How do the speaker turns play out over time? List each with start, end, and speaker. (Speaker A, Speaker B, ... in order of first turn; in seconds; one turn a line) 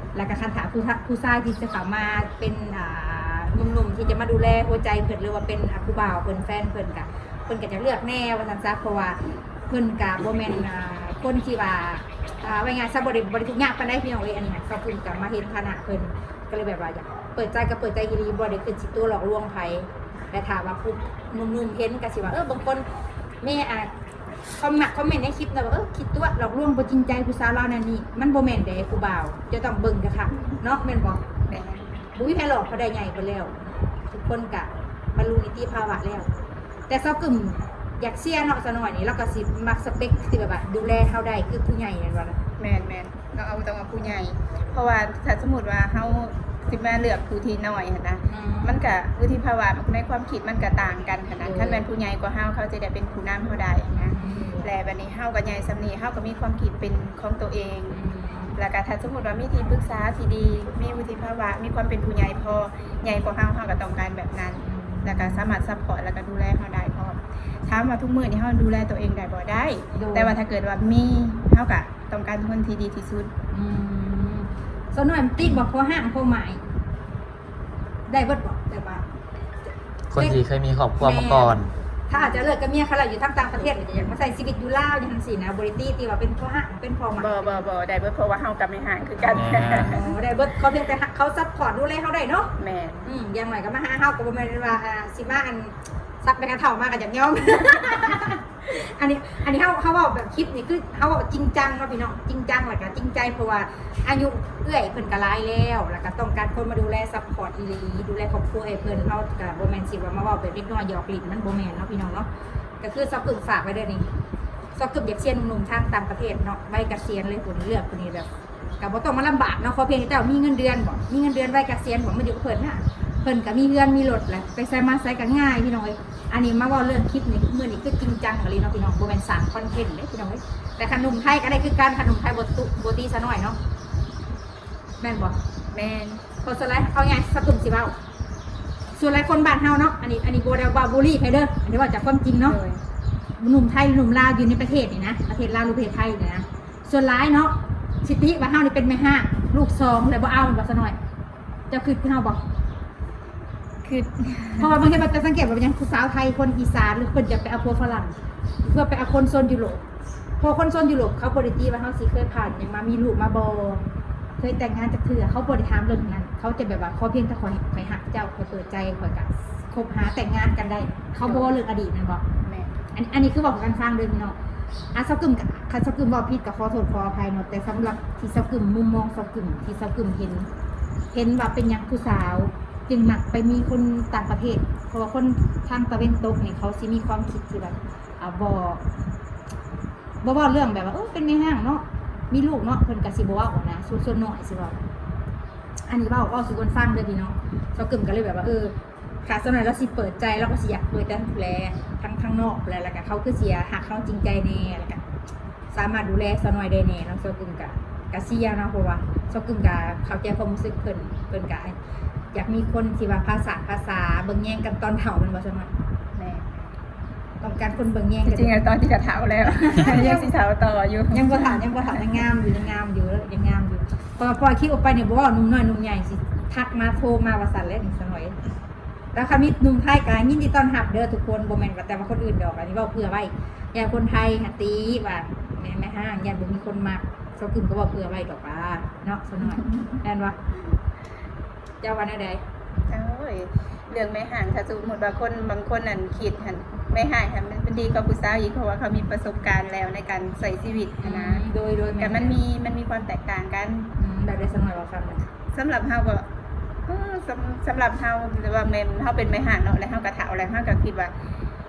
Speaker A: 0.1-22.9
Speaker A: 23.4-23.9
Speaker A: 24.6-31.2
Speaker B: 31.5-31.9
Speaker A: 32.1-36.3
Speaker A: 36.9-42.4
Speaker B: 42.6-58.0
Speaker A: 48.3-48.8
Speaker A: 51.4-51.8
Speaker A: 54.1-54.7
Speaker A: 57.9-58.6
Speaker B: 58.6-73.3
Speaker A: 64.6-65.5
Speaker A: 69.9-70.3
Speaker A: 73.5-76.6
Speaker A: 78.1-79.0
Speaker C: 80.1-81.7
Speaker A: 80.2-80.4
Speaker A: 81.0-87.6
Speaker B: 82.1-82.4
Speaker B: 87.2-90.2
Speaker A: 89.2-92.5
Speaker C: 89.3-90.0
Speaker B: 92.6-93.1
Speaker A: 93.0-112.3
Speaker A: 112.8-114.1
Speaker A: 114.8-118.3
Speaker A: 118.8-133.6
Speaker A: 135.0-135.4
Speaker B: 135.7-136.2
Speaker A: 136.4-137.9
Speaker A: 138.9-142.6
Speaker B: 142.4-142.8
Speaker A: 143.4-151.0
Speaker A: 151.7-152.4
Speaker B: 153.8-154.7
Speaker A: 154.6-159.8
Speaker A: 160.4-163.8
Speaker A: 164.4-172.2
Speaker B: 171.2-171.5
Speaker B: 172.4-172.8
Speaker A: 172.9-174.4
Speaker A: 174.9-180.5
Speaker A: 181.1-188.9
Speaker A: 190.2-194.8
Speaker A: 195.9-205.0
Speaker A: 205.7-211.8
Speaker A: 212.3-215.7
Speaker B: 216.2-216.7
Speaker A: 217.4-218.6
Speaker B: 218.3-222.0
Speaker A: 219.6-220.3
Speaker A: 221.1-228.4
Speaker A: 229.1-240.4
Speaker A: 241.8-242.4
Speaker B: 242.9-251.5
Speaker A: 251.0-252.4
Speaker B: 252.0-253.9
Speaker A: 254.0-255.2
Speaker B: 255.5-256.3
Speaker B: 256.9-261.1